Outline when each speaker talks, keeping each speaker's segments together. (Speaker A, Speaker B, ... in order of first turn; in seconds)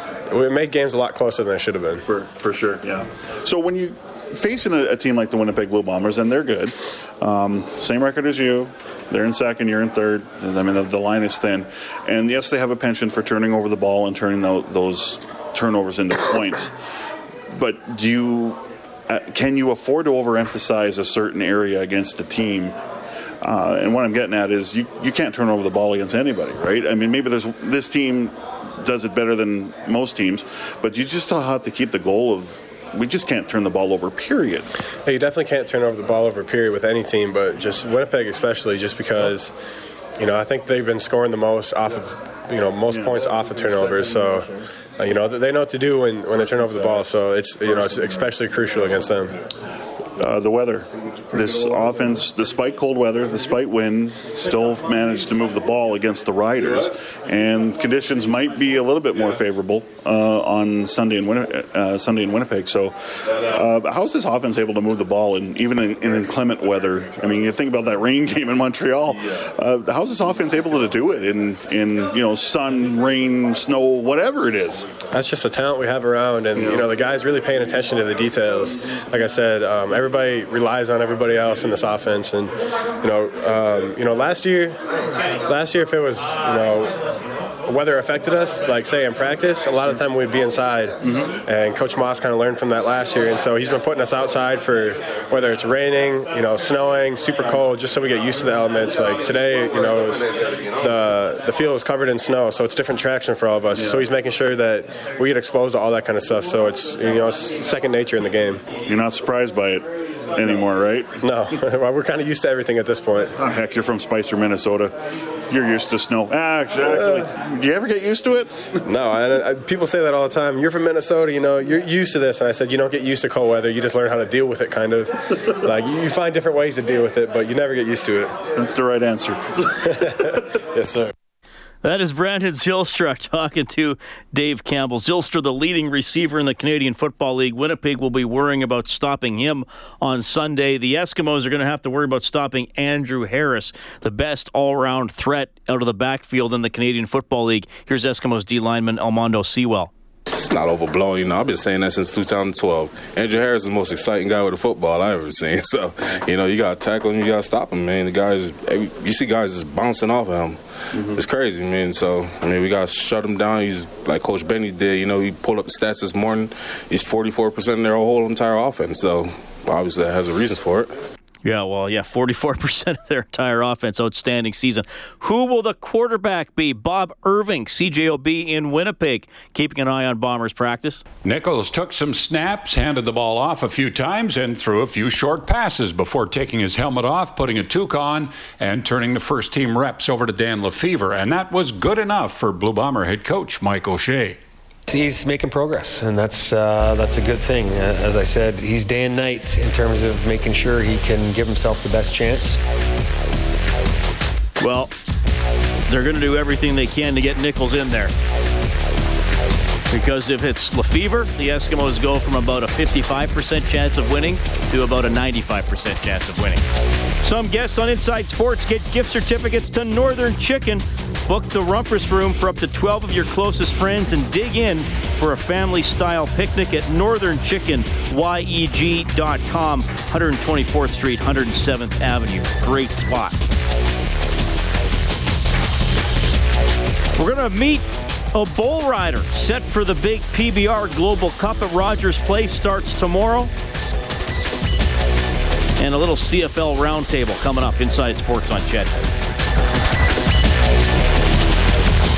Speaker A: 0.3-2.0, 35.0-39.5, 40.2-49.4, 75.1-84.8, 85.5-87.0, 87.7-108.6, 111.2-113.3, 118.8-128.4, 130.7-131.1
Speaker B: 2.0-16.7, 17.5-22.7, 23.4-34.7, 50.2-74.9, 76.5-76.9, 91.0-91.3, 103.7-104.1, 108.8-111.2, 113.4-115.0, 115.5-118.8, 128.5-130.4
Speaker C: 131.8-149.9, 171.4-181.0, 204.6-204.9, 205.9-208.1, 209.9-216.6, 217.2-233.4, 237.2-243.5, 245.8-248.9
Speaker D: 150.3-170.9
Speaker E: 181.2-194.4
Speaker F: 194.9-202.6